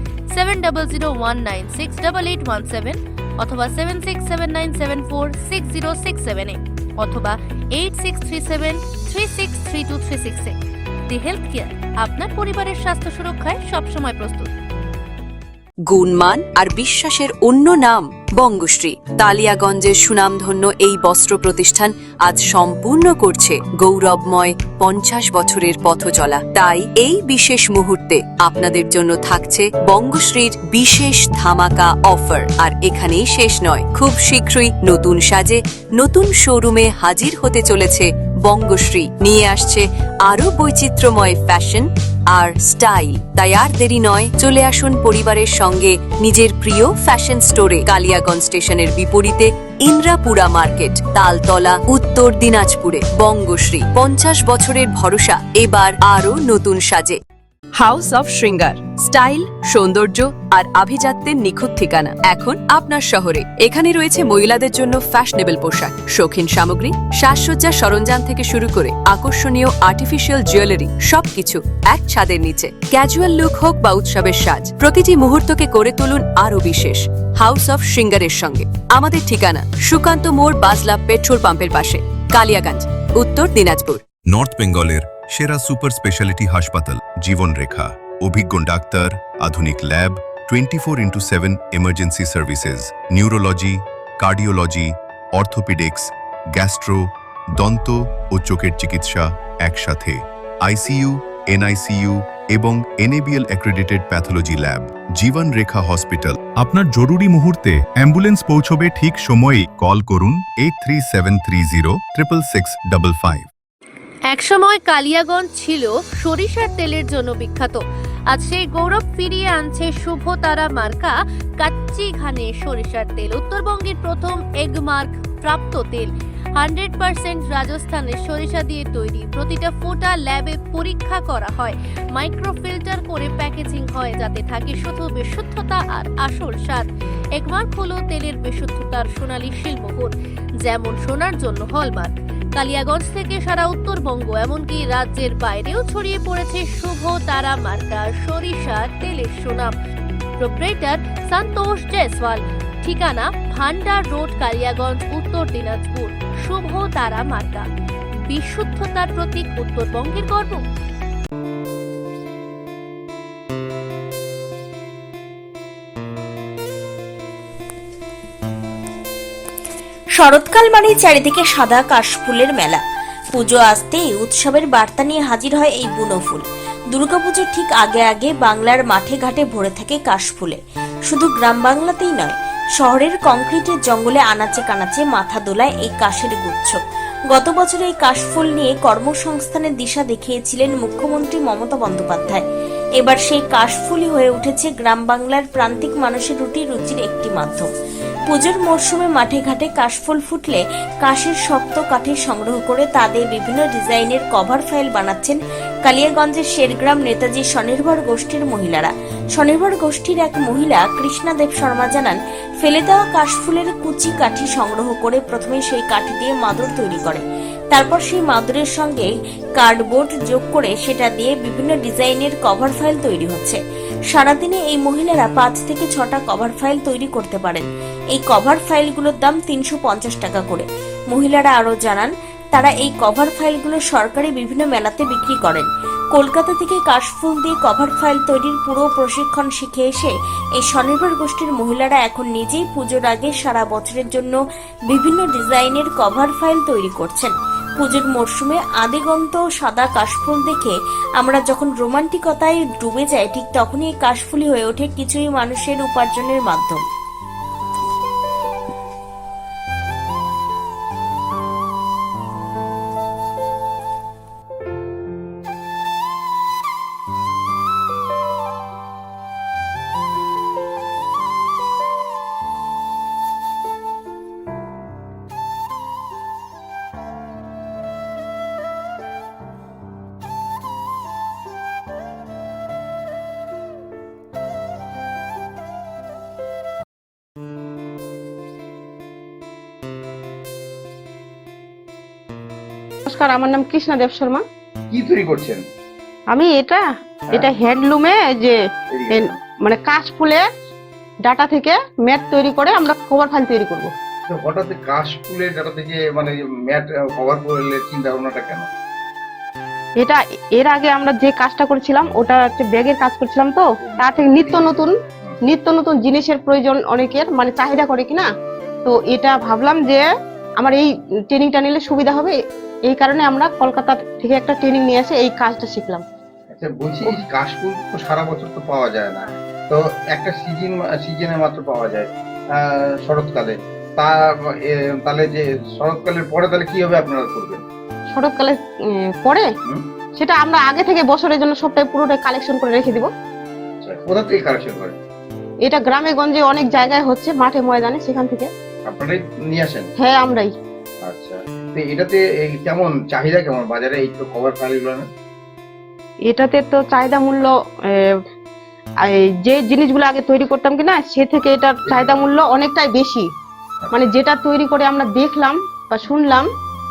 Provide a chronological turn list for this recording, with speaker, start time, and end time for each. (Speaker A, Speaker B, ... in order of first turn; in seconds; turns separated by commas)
Speaker A: 0.3-10.5, Speaker A: 11.1-14.5, Speaker B: 15.9-57.2, Speaker B: 57.8-84.0, Speaker C: 84.2-113.5, Speaker A: 114.3-149.7, Speaker A: 150.4-157.7, Speaker A: 158.3-160.6, Speaker D: 170.2-172.8, Speaker D: 173.3-186.8, Speaker D: 187.3-192.4, Speaker D: 193.0-197.7, Speaker D: 198.3-223.6, Speaker D: 224.1-244.4, Speaker D: 244.9-256.8, Speaker E: 293.1-294.4, Speaker F: 294.9-295.6, Speaker E: 296.3-298.6, Speaker F: 298.9-299.4, Speaker E: 299.1-300.4, Speaker E: 301.2-303.9, Speaker F: 304.3-308.7, Speaker E: 310.0-318.3, Speaker F: 313.9-315.4, Speaker E: 318.8-326.0, Speaker F: 326.5-334.2, Speaker F: 334.7-337.6, Speaker E: 338.1-339.4, Speaker E: 340.2-343.1, Speaker F: 343.8-344.9, Speaker E: 345.6-348.5, Speaker F: 348.9-349.9, Speaker E: 350.0-350.5, Speaker F: 351.0-355.1, Speaker E: 356.2-358.1, Speaker E: 359.1-363.3, Speaker F: 361.9-362.1, Speaker E: 363.9-366.4